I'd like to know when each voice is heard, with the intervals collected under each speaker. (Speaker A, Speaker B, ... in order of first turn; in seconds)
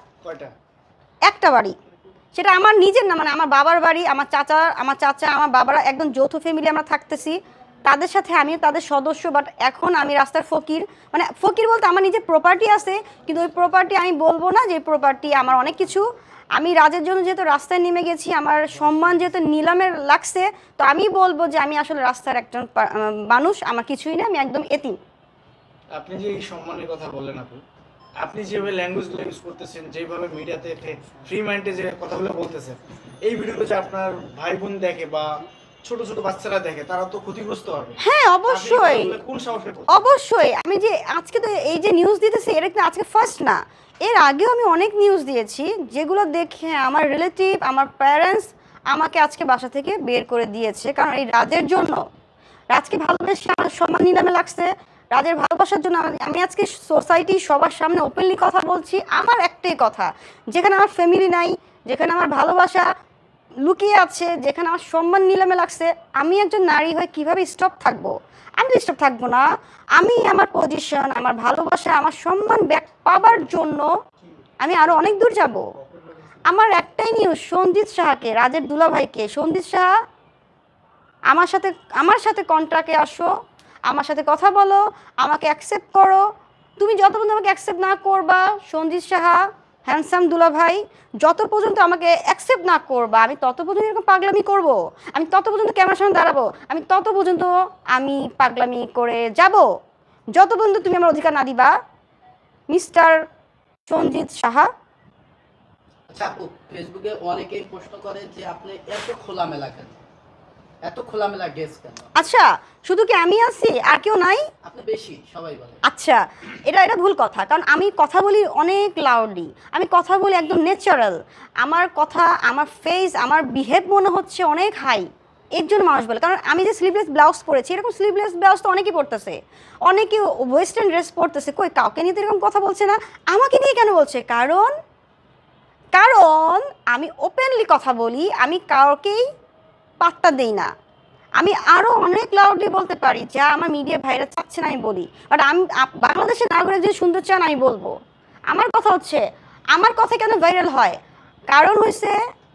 Speaker A: 0.2-0.5, 25.9-27.6, 28.2-40.0
Speaker B: 1.3-1.7, 2.4-25.0, 38.0-39.2, 39.9-52.0, 52.7-62.9, 63.6-73.9, 74.6-75.7, 76.5-79.9, 81.3-83.3, 83.9-86.2, 86.8-99.7, 100.3-101.7, 102.7-103.2, 103.9-104.7, 112.2-114.5, 115.9-134.7, 136.0-139.2, 140.0-140.7, 141.4-147.9, 148.5-152.2
Speaker C: 106.1-110.0, 110.8-112.1, 114.6-115.8